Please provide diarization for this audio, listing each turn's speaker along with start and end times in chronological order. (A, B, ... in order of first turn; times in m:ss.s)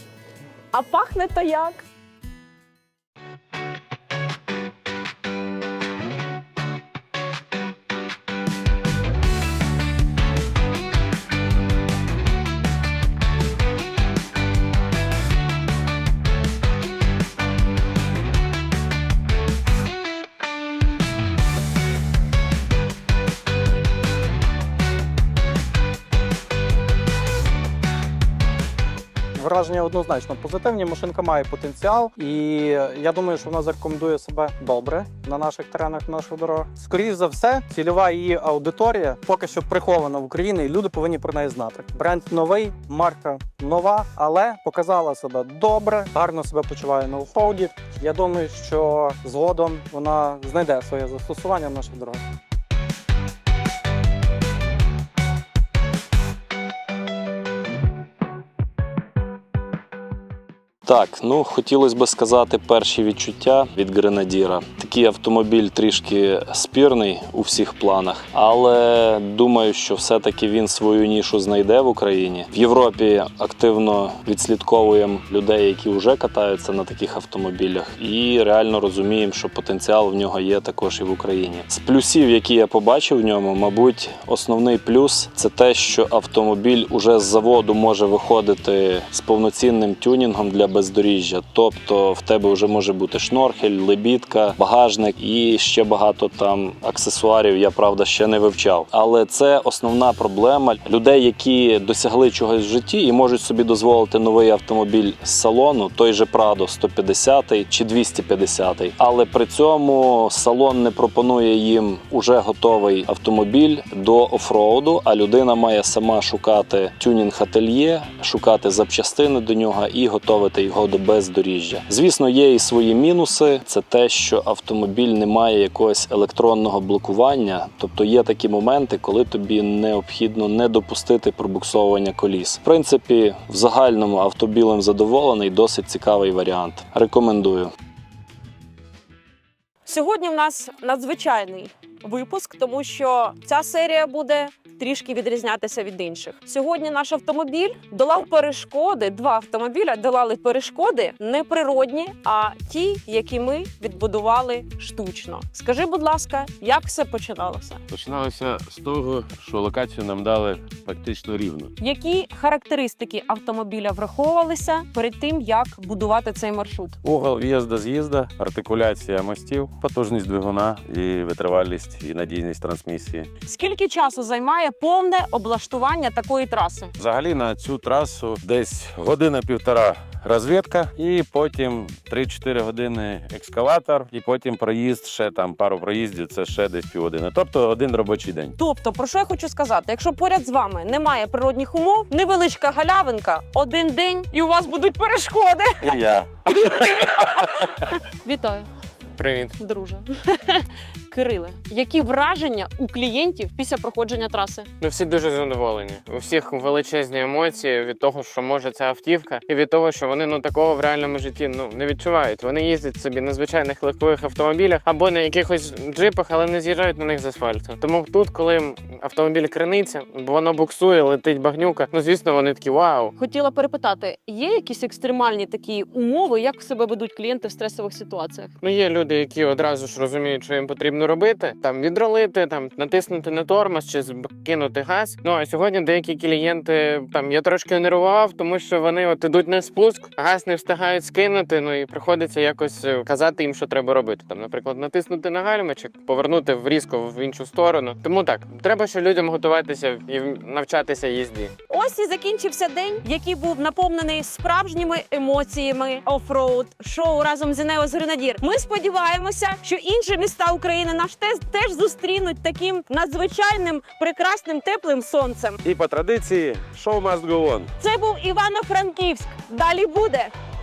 0:00.7-0:01.8 A
0:29.4-0:52.2 B
1:00.9-2:17.7 C
2:19.8-2:37.8 A
2:37.9-2:41.7 D
2:41.8-2:47.0 A
2:47.0-2:53.3 D
2:53.5-2:56.9 A
2:57.0-3:08.6 D
3:08.6-3:16.0 A
3:15.8-3:17.1 D
3:18.1-3:18.7 A
3:19.2-3:19.6 E
3:19.6-3:24.7 A
3:24.8-3:43.1 E
3:43.2-3:48.5 A
3:48.6-4:11.5 E
4:11.7-4:25.6 A
4:25.6-4:27.7 D
4:27.8-4:30.3 A